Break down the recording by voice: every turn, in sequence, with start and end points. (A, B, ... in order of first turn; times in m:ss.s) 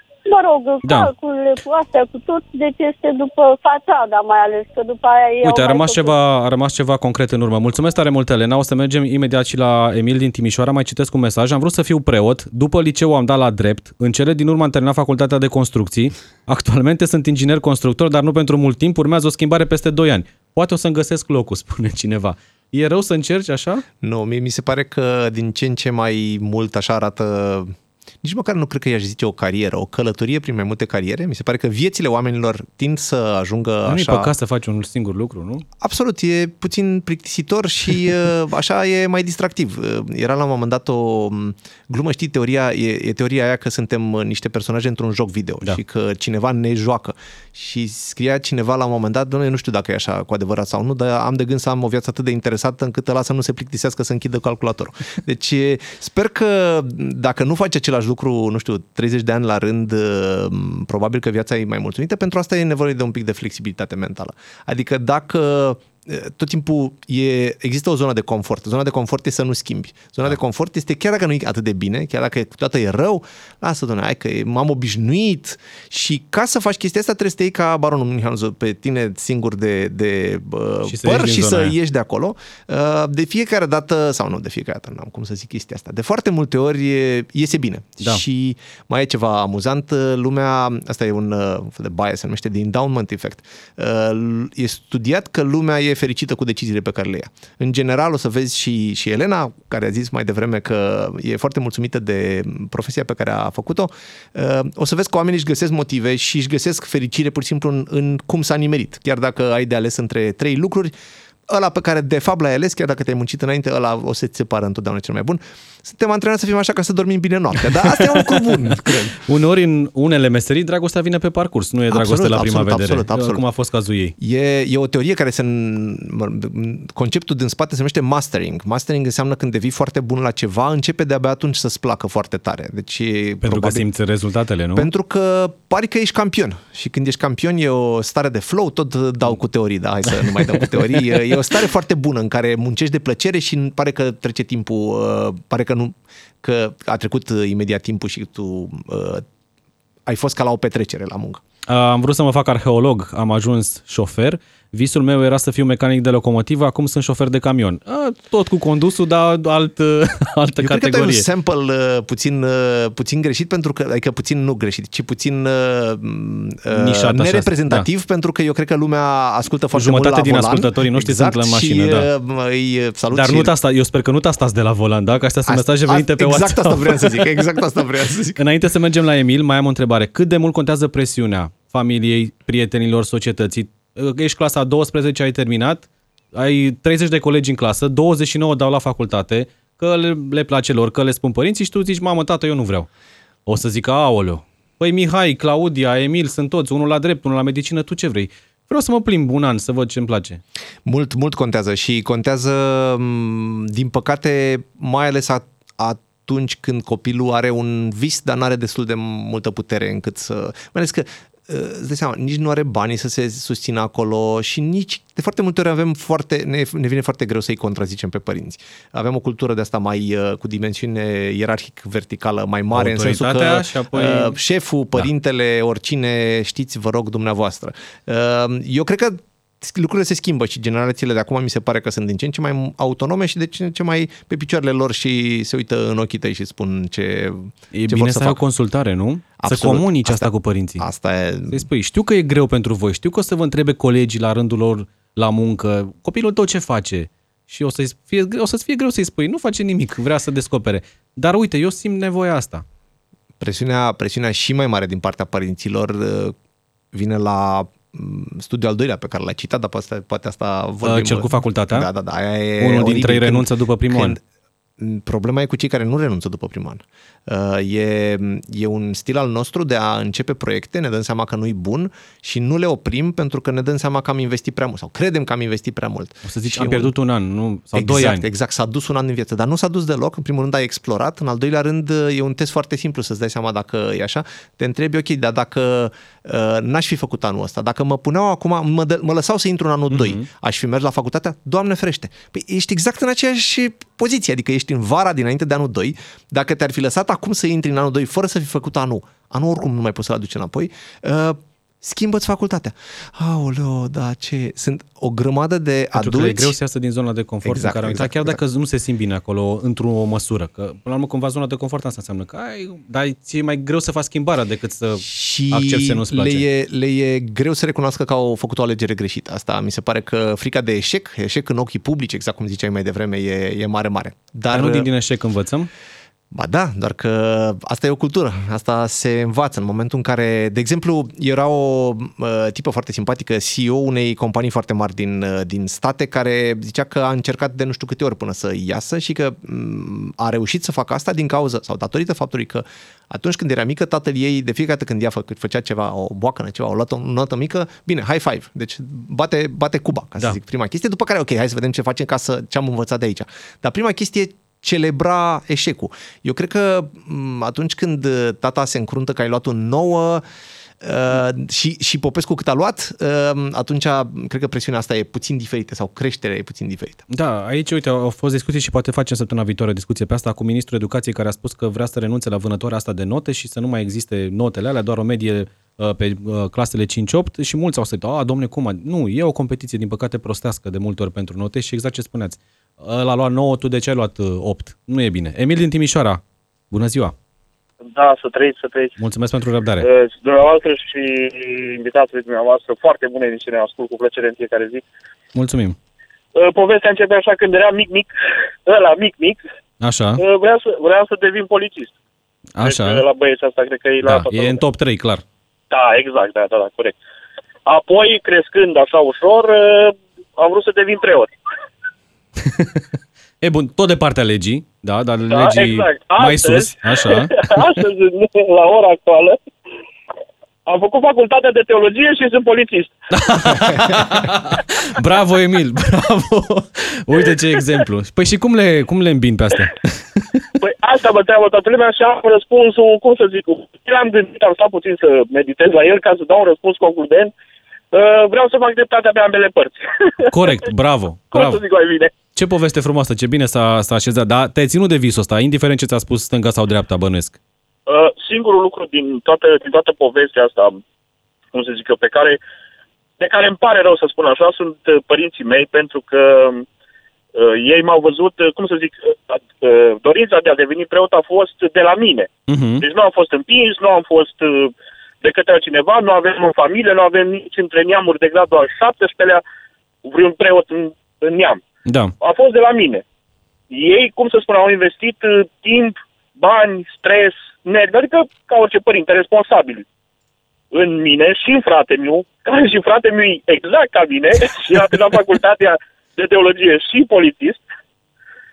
0:00.2-0:06.1 A
0:00.8-0:01.1 B
0:05.4-0:23.8 B
0:24.0-0:34.3 C
0:33.9-0:35.6 B
0:35.8-1:50.9 C
1:20.8-1:21.7 B
1:51.5-1:59.2 C
1:58.0-2:04.1 B
2:01.9-2:03.4 C
2:04.2-2:13.8 C
2:13.4-2:14.9 B
2:14.7-2:29.2 C
2:20.2-2:20.7 B
2:30.0-2:31.4 C
2:31.7-2:41.2 B
2:40.6-2:53.5 C
2:46.7-2:47.8 B
2:49.7-2:52.1 B
2:53.1-2:57.5 B
2:55.4-2:58.4 C
2:58.4-3:12.9 B
3:13.4-3:20.4 B
3:20.8-3:58.4 C
3:42.7-3:44.4 B
3:57.7-4:00.8 B
3:59.4-4:01.7 C
4:01.5-4:12.6 B
4:13.4-4:16.3 C
4:16.9-4:24.2 C
4:20.8-4:21.9 B
4:22.6-4:24.2 B
4:24.8-4:36.9 C
4:36.2-4:38.2 B
4:37.7-5:06.5 C
4:49.9-4:50.2 B
5:06.0-5:16.4 B
5:07.4-5:08.4 C
5:15.0-5:24.9 C
5:24.5-5:25.7 B
5:26.3-6:00.2 C
6:00.8-6:07.0 C
6:07.1-6:27.1 B
6:27.9-6:29.0 D
6:29.0-6:29.9 B
6:29.8-6:34.8 D
6:35.3-6:35.8 B
6:36.3-6:38.1 D
6:38.6-6:39.4 D
6:39.8-6:40.2 B
6:40.2-6:41.9 D
6:42.6-6:43.0 B
6:42.6-6:44.6 D
6:44.0-6:45.2 B
6:45.7-6:47.0 D
6:47.6-6:51.3 D
6:52.4-6:52.8 B
6:53.4-6:57.7 B
6:55.3-6:59.4 D
7:00.6-7:02.9 D
7:03.1-7:10.5 B
7:10.6-7:17.3 D
7:17.9-7:20.5 D
7:20.3-7:21.6 B
7:21.3-7:22.1 D
7:22.3-7:27.4 B
7:27.9-7:30.8 D
7:31.5-7:32.4 D
7:33.2-7:36.6 D
7:37.3-7:42.3 D
7:42.5-7:42.8 B
7:42.8-7:49.4 D
7:50.0-7:51.6 D
7:51.8-7:52.1 B
7:52.2-7:53.0 D
7:53.7-7:59.8 D
8:00.7-8:07.6 D